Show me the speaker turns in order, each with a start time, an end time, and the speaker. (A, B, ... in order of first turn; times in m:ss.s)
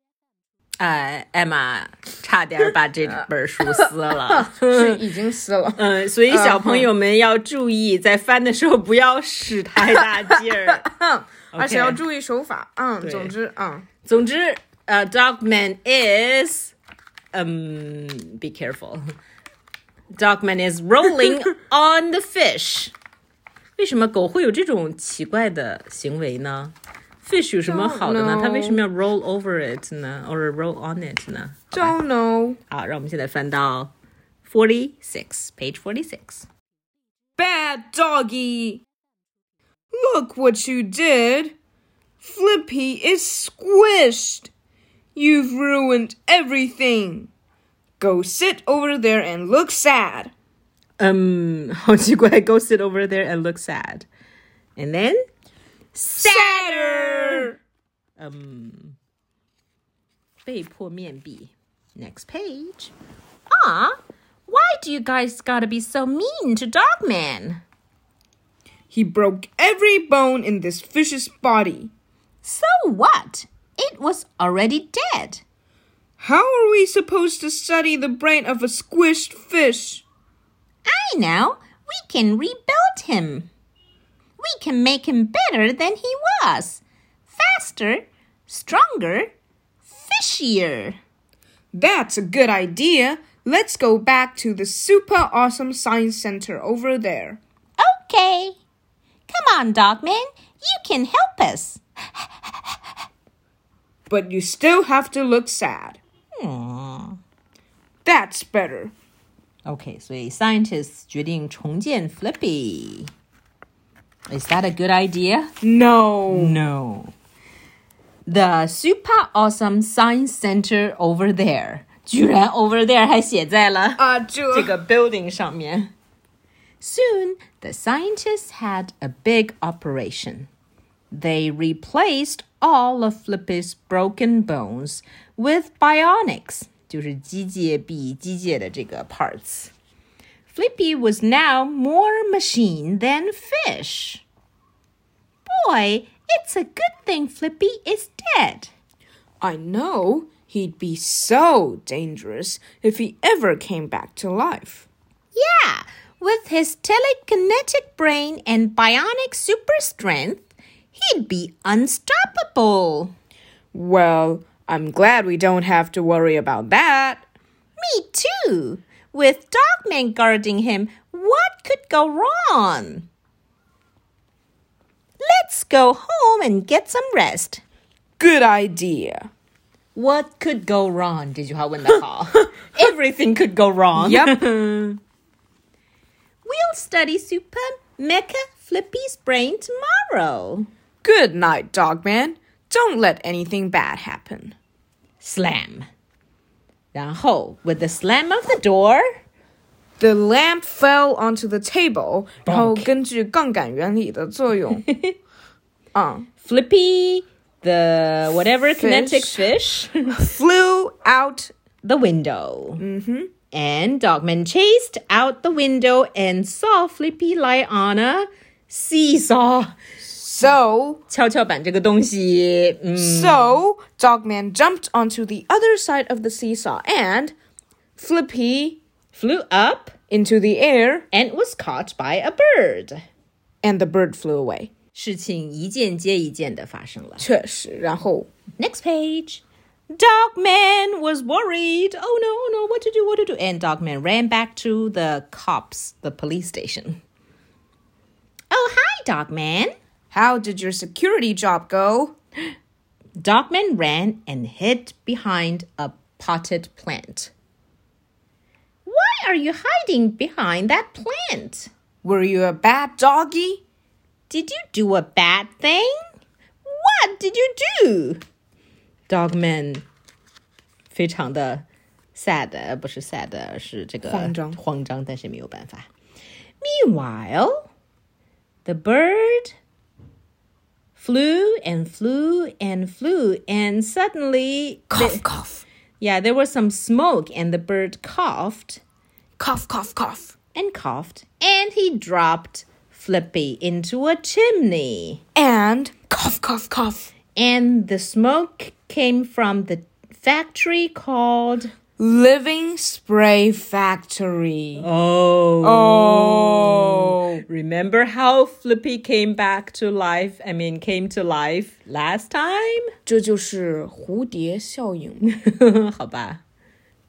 0:00.8-0:05.0 A
0:04.4-0:06.9 B
0:05.8-0:10.9 A
0:10.8-0:13.9 B
0:11.5-0:12.0 A
0:13.0-0:13.3 A
0:14.0-0:16.8 A
0:17.3-0:19.0 A
0:20.1-0:22.9 A
0:23.8-0:32.0 A
0:27.7-0:28.8 B
0:31.7-0:32.6 B
0:32.7-0:33.9 A
0:34.4-0:36.5 A
0:37.4-0:38.8 B
0:39.9-0:41.5 B
0:42.2-0:44.5 B
0:45.2-0:47.3 B
0:48.0-0:50.3 B
0:51.0-0:54.1 A
0:54.8-0:55.2 A
0:56.0-0:57.6 A
0:56.2-0:57.6 B
0:58.2-0:59.0 A
1:00.4-1:02.9 A
1:03.5-1:04.0 A
1:04.5-1:07.6 A
1:08.9-1:11.9 B
1:12.4-1:15.4 A
1:16.2-1:20.0 B
1:20.9-1:23.5 A
1:24.4-1:29.3 A
1:29.9-1:31.0 A
1:31.7-1:37.4 B
1:37.8-1:38.6 A
1:39.3-1:42.8 A
1:44.1-1:46.0 B
1:46.4-1:47.2 A
1:48.0-1:48.9 B
1:49.7-1:53.1 A
1:54.3-1:55.5 A
1:55.6-1:56.6 B
1:56.3-1:57.1 A
1:58.3-2:05.9 A
2:04.0-2:04.7 B
2:06.8-2:10.5 A
2:11.1-2:19.7 A
2:20.5-2:24.2 A
2:25.5-2:28.7 A
2:29.4-2:34.9 B
2:35.3-2:43.1 A
2:43.7-2:47.3 B
2:47.8-2:53.1 A
2:55.2-2:57.6 A
2:58.2-2:59.3 B
3:00.0-3:05.0 A
3:04.0-3:04.5 B
3:06.4-3:10.7 A
3:11.0-3:14.6 B
3:15.2-3:15.9 A
3:16.9-3:19.0 A
3:20.0-3:24.8 B
3:22.4-3:22.9 A
3:24.8-3:25.2 A
3:25.9-3:26.3 B
3:26.4-3:30.1 A
3:28.8-3:29.4 B
3:30.1-3:31.5 B
3:31.8-3:32.8 A
3:32.8-3:33.3 B
3:33.5-3:39.7 A
3:40.1-3:41.0 B
3:41.1-3:43.6 A
3:43.0-3:47.3 B
3:48.0-3:48.8 B
3:49.1-3:49.9 A
3:50.1-3:51.1 B
3:51.1-3:53.0 A
3:53.6-3:54.7 B
3:54.9-3:57.3 A
3:57.2-3:58.3 B
3:58.6-4:07.0 A
4:08.5-4:09.7 A
4:10.1-4:12.2 B
4:13.2-4:17.3 A
4:18.9-4:21.7 A
4:22.0-4:23.6 B
4:24.3-4:26.0 A
4:26.6-4:28.2 A
4:29.1-4:29.8 A
4:30.9-4:35.9 A
4:34.0-4:34.6 B
4:36.6-4:37.7 A
4:38.6-4:39.5 A
4:41.0-4:45.2 A
4:44.9-4:45.6 B
4:46.0-4:48.8 A
4:49.4-4:50.4 B
4:50.5-4:55.2 A
4:55.4-4:57.1 B
4:57.4-5:01.7 A
5:02.0-5:04.9 B
5:04.8-5:12.9 A
5:05.6-5:07.4 B
5:13.1-5:15.3 B
5:15.3-5:16.4 A